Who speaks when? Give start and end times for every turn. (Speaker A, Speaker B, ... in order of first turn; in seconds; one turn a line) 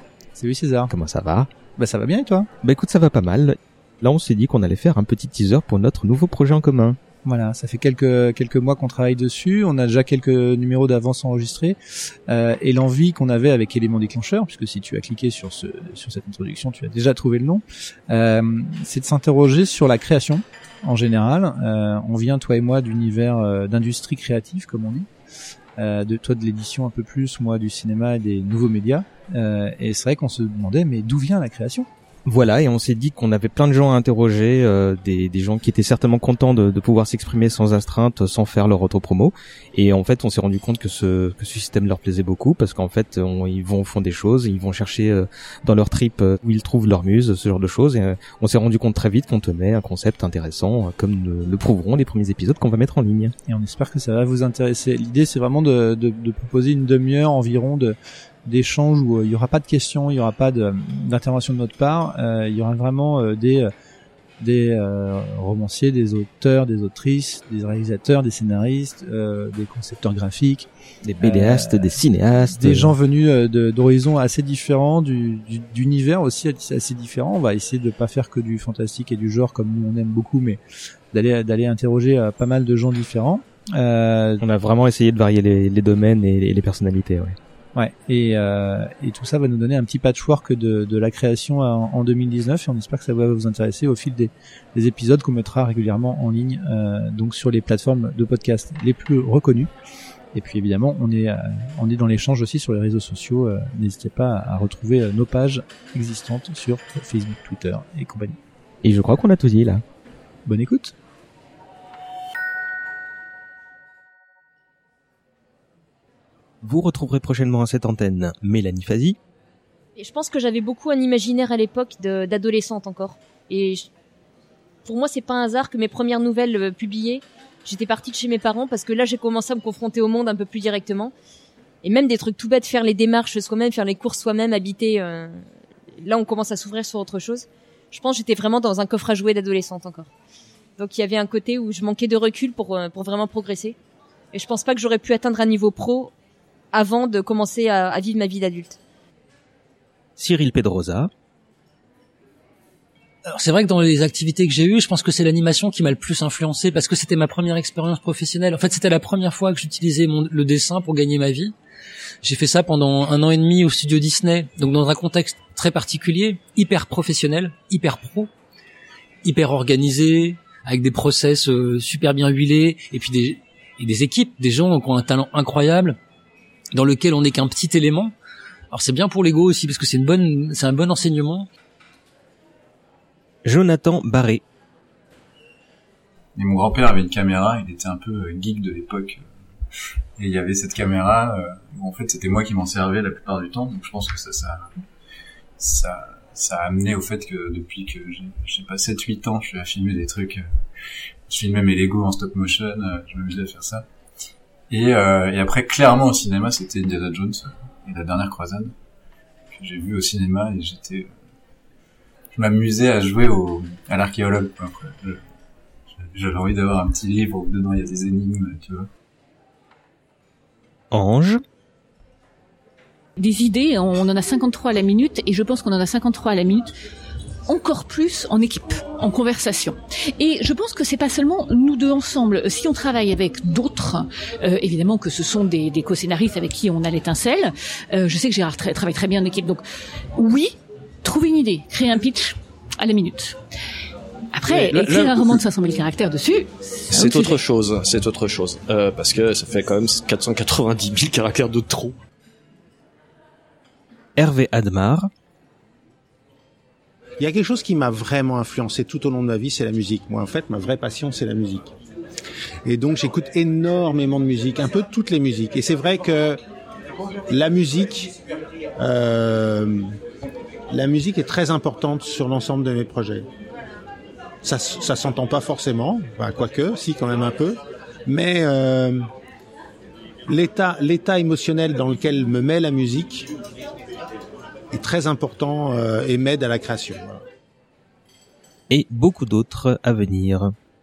Speaker A: 0.3-0.9
Speaker B: 0.9-1.5
Speaker A: 1.8-2.5
Speaker B: 2.6-7.0
Speaker A: 7.2-11.8
Speaker A: 12.3-25.1
Speaker A: 25.8-31.9
Speaker B: 32.2-53.3
Speaker A: 53.5-63.7
Speaker A: 64.4-70.7
Speaker B: 71.0-72.9
Speaker A: 71.2-80.6
Speaker A: 81.1-84.4
Speaker B: 84.4-87.3
Speaker A: 87.7-99.7
Speaker A: 100.3-108.4
Speaker B: 108.8-109.8
Speaker A: 110.5-110.9
Speaker B: 116.6-119.2
Speaker C: 120.0-123.9
Speaker C: 124.8-131.1
Speaker C: 131.8-135.4
Speaker C: 136.0-140.1
Speaker C: 140.8-143.8
Speaker C: 144.3-146.1
Speaker C: 146.7-148.8
Speaker B: 150.2-151.1
Speaker D: 153.2-161.5
Speaker D: 162.2-168.3
Speaker D: 169.2-176.0
Speaker D: 176.7-178.1
Speaker D: 178.7-181.5
Speaker B: 183.4-184.4
Speaker E: 186.3-189.2
Speaker E: 190.2-194.7
Speaker E: 195.6-200.4
Speaker E: 201.3-203.8
Speaker E: 204.7-208.7
Speaker E: 209.5-211.1
Speaker E: 212.3-215.2
Speaker E: 215.9-218.9
Speaker B: 220.9-221.4
Speaker F: 223.2-226.7
Speaker F: 227.5-239.6
Speaker F: 240.2-243.3
Speaker F: 244.3-247.4
Speaker G: 244.7-245.1
Speaker G: 246.9-251.9
Speaker B: 254.2-255.1
Speaker H: 257.2-261.7
Speaker H: 262.6-266.4
Speaker H: 267.3-268.1
Speaker H: 268.8-269.9
Speaker H: 270.7-273.3
Speaker H: 274.4-279.0
Speaker H: 280.3-283.3
Speaker H: 284.7-287.2
Speaker B: 288.7-290.5